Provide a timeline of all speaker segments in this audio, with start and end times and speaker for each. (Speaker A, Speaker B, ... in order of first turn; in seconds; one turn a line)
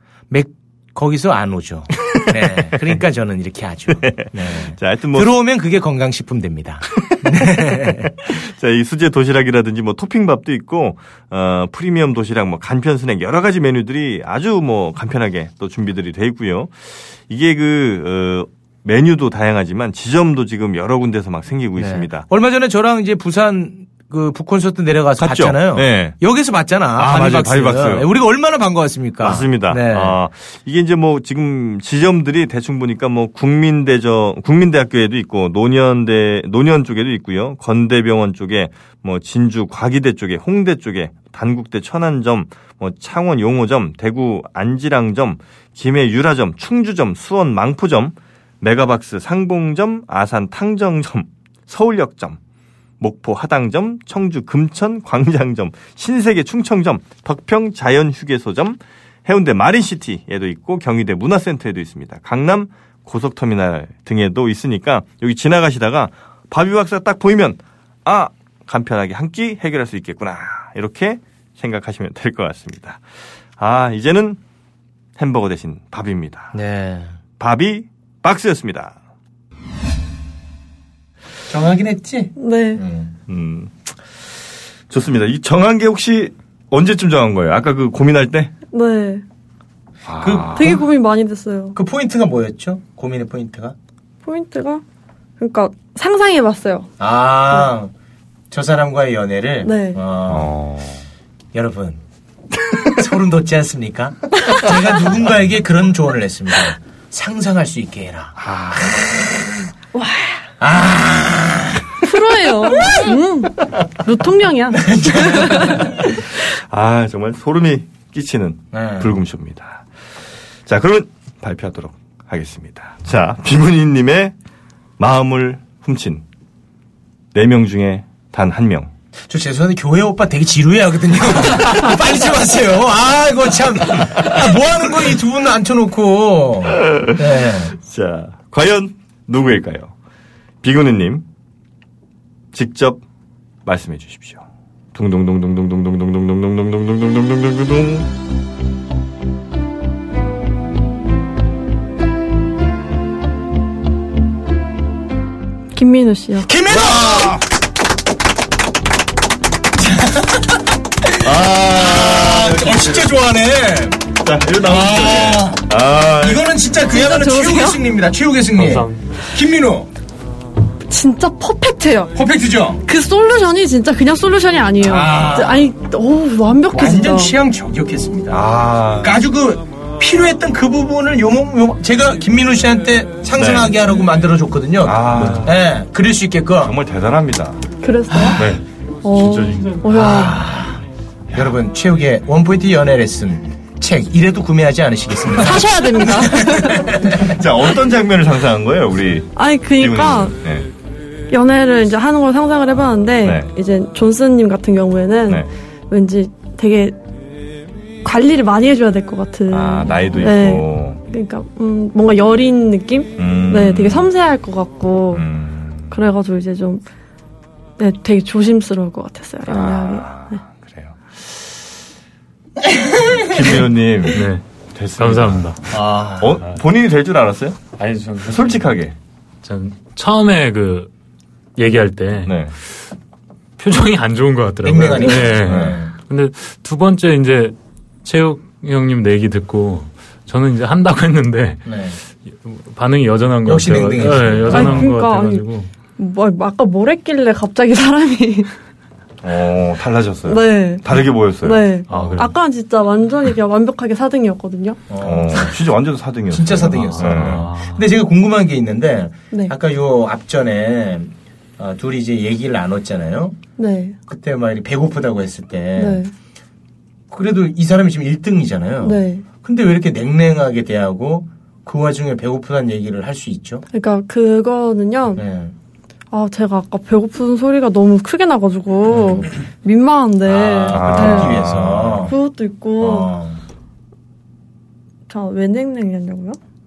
Speaker A: 0.3-8.2
Speaker B: 4.0-5.3
Speaker B: 8.2-22.3
Speaker A: 21.8-30.1
Speaker B: 25.2-26.2
Speaker B: 26.9-28.1
Speaker B: 29.2-52.4
Speaker B: 53.0-73.0
Speaker B: 73.6-74.4
Speaker B: 75.2-76.5
Speaker A: 76.5-77.1
Speaker B: 77.4-79.0
Speaker A: 81.5-83.1
Speaker C: 82.4-82.8
Speaker B: 83.3-83.7
Speaker B: 84.9-88.5
Speaker C: 88.7-89.2
Speaker B: 90.0-90.8
Speaker A: 90.2-90.8
Speaker C: 90.5-91.8
Speaker A: 91.8-93.8
Speaker C: 94.2-94.8
Speaker C: 95.4-96.9
Speaker A: 97.0-97.9
Speaker A: 98.5-100.5
Speaker C: 99.6-100.0
Speaker B: 100.3-101.0
Speaker A: 101.5-102.0
Speaker A: 102.9-108.4
Speaker B: 108.4-109.0
Speaker C: 109.9-110.4
Speaker A: 110.6-112.1
Speaker C: 112.0-115.8
Speaker A: 112.8-113.1
Speaker A: 114.8-116.0
Speaker B: 116.5-119.9
Speaker A: 118.7-119.1
Speaker B: 120.7-124.3
Speaker B: 125.0-126.2
Speaker B: 127.3-128.9
Speaker A: 129.3-137.7
Speaker B: 136.9-139.9
Speaker B: 140.6-141.2
Speaker B: 142.5-143.0
Speaker B: 143.6-148.1
Speaker C: 155.7-156.5
Speaker A: 156.4-157.4
Speaker B: 156.7-157.4
Speaker A: 159.8-160.6
Speaker B: 161.2-163.1
Speaker A: 161.3-164.0
Speaker B: 164.2-166.5
Speaker A: 164.6-169.9
Speaker C: 166.9-167.8
Speaker D: 168.6-169.0
Speaker C: 170.9-172.1
Speaker A: 172.1-172.8
Speaker C: 172.9-177.3
Speaker A: 174.8-175.7
Speaker A: 176.7-186.7
Speaker B: 178.3-179.2
Speaker B: 183.3-183.8
Speaker B: 184.8-185.6
Speaker B: 186.6-187.6
Speaker C: 187.8-188.4
Speaker D: 188.4-188.6
Speaker C: 189.0-190.4
Speaker B: 189.2-189.8
Speaker D: 189.3-189.7
Speaker A: 189.9-190.8
Speaker A: 191.3-197.3
Speaker C: 195.4-196.9
Speaker B: 197.2-200.7
Speaker C: 199.4-200.3
Speaker C: 201.3-207.0
Speaker B: 203.2-203.5
Speaker C: 208.0-215.2
Speaker B: 209.5-211.0
Speaker B: 213.2-214.1
Speaker B: 215.1-216.0
Speaker C: 215.9-216.8
Speaker C: 217.8-220.4
Speaker B: 219.5-221.6
Speaker B: 223.3-225.6
Speaker D: 224.1-224.4
Speaker D: 225.0-225.6
Speaker A: 225.7-226.4
Speaker B: 226.2-227.6
Speaker D: 227.8-228.6
Speaker B: 228.2-228.9
Speaker D: 229.4-230.9
Speaker D: 231.6-232.5
Speaker B: 232.2-232.5
Speaker D: 233.6-241.7
Speaker A: 234.6-235.9
Speaker B: 235.4-235.8
Speaker A: 241.7-242.0
Speaker D: 242.3-245.7
Speaker A: 243.4-244.9
Speaker C: 244.5-245.4
Speaker C: 246.0-248.5
Speaker B: 249.2-251.8
Speaker C: 250.3-254.8
Speaker D: 251.9-252.4
Speaker A: 254.9-255.6
Speaker B: 255.0-257.5
Speaker A: 256.3-263.4
Speaker D: 256.4-257.9
Speaker C: 263.6-264.0
Speaker A: 264.1-266.0
Speaker C: 265.8-266.1
Speaker A: 267.1-273.6
Speaker C: 268.8-269.3
Speaker C: 273.7-275.2
Speaker A: 275.1-275.5
Speaker C: 276.1-281.6
Speaker A: 280.3-282.1
Speaker B: 280.7-282.1
Speaker C: 282.1-283.1
Speaker A: 282.8-283.4
Speaker C: 285.1-286.4